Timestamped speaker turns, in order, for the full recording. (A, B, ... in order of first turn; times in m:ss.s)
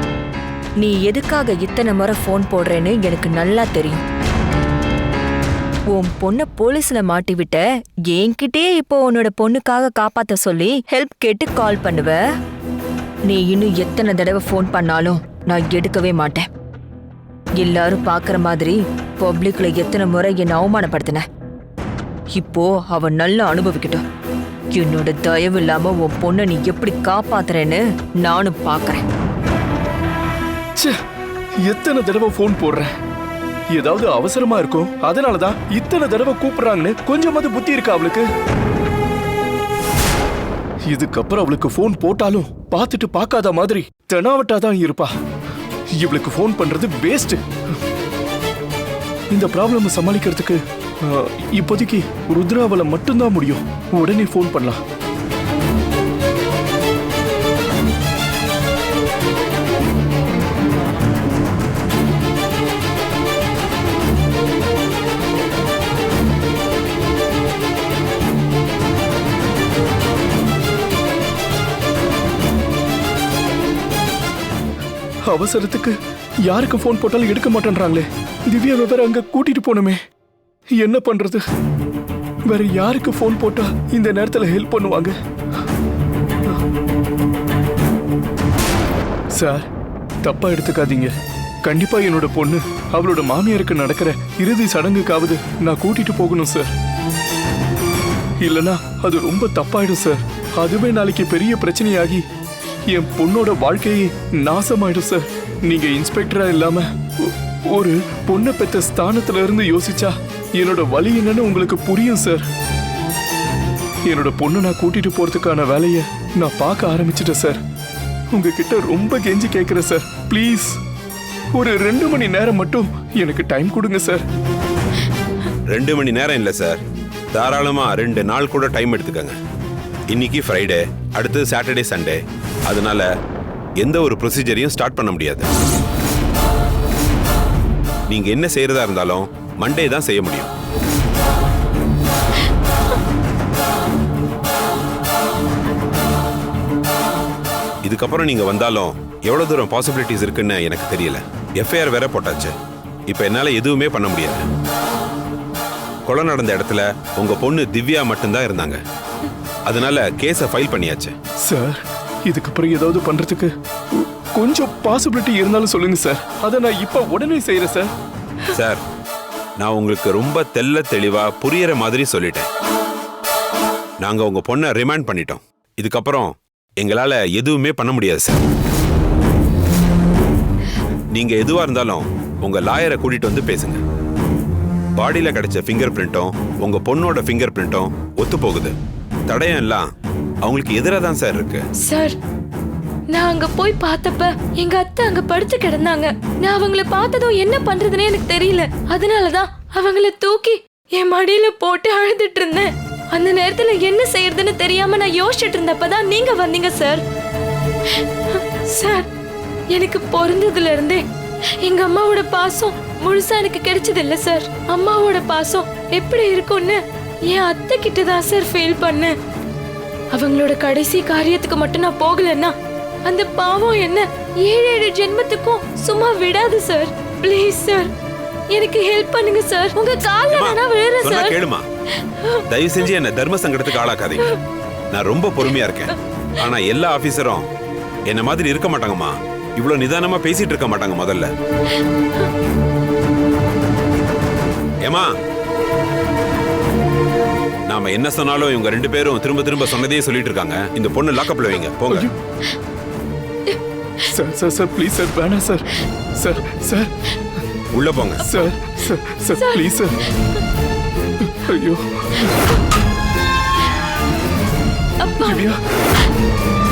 0:00.8-0:04.0 A
0:05.9-0:12.2 A
0:13.3-0:16.5 A
0:17.6-0:21.2 A
0:22.4-0:24.0 A
0:24.7-0:29.0 A
0:31.6-0:32.9 B
0:33.7-0:38.3 B
0:40.9-0:45.1 B
0:46.0-0:47.4 B
0:49.3-0:54.8 B
1:15.2-1:20.0 B
1:20.8-1:21.4 B
1:22.5-1:25.2 B
1:29.3-1:29.7 B
1:30.2-1:31.1 B
1:31.6-1:36.7 B
1:38.4-1:42.2 B
1:42.9-1:52.4 B
1:54.0-1:57.6 B
1:58.3-2:00.8 B
2:01.5-2:04.2 B
2:05.7-2:06.8 C
2:07.3-2:09.4 C
2:10.1-2:13.1 C
2:13.8-2:15.5 C
2:18.1-2:20.5 C
2:27.8-2:32.5 C
2:33.1-2:34.4 C
2:36.1-2:38.8 C
2:39.6-2:41.1 C
2:41.4-2:47.9 B
2:48.5-2:48.8 C
2:49.6-2:52.5 C
2:54.0-2:58.4 C
3:01.1-3:03.8 C
3:05.0-3:08.7 C
3:09.3-3:09.9 C
3:10.4-3:11.6 C
3:11.8-3:12.2 D
3:13.1-3:27.0 D
3:28.6-3:29.1 D
3:29.7-3:31.0 D
3:31.6-3:39.2 D
3:40.1-3:42.5 D
3:43.0-3:47.9 D
3:48.5-3:51.4 D
3:50.3-3:51.6 C
3:52.0-3:52.4 D
3:52.5-3:54.3 C
3:54.9-3:57.4 C
3:58.1-4:01.3 C
4:04.8-4:05.1 C
4:07.7-4:12.1 C
4:14.1-4:16.9 B
4:17.7-4:18.2 C
4:18.2-4:20.0 B
4:19.4-4:19.7 D
4:21.2-4:22.3 B
4:25.0-4:25.5 D
4:25.2-4:25.6 B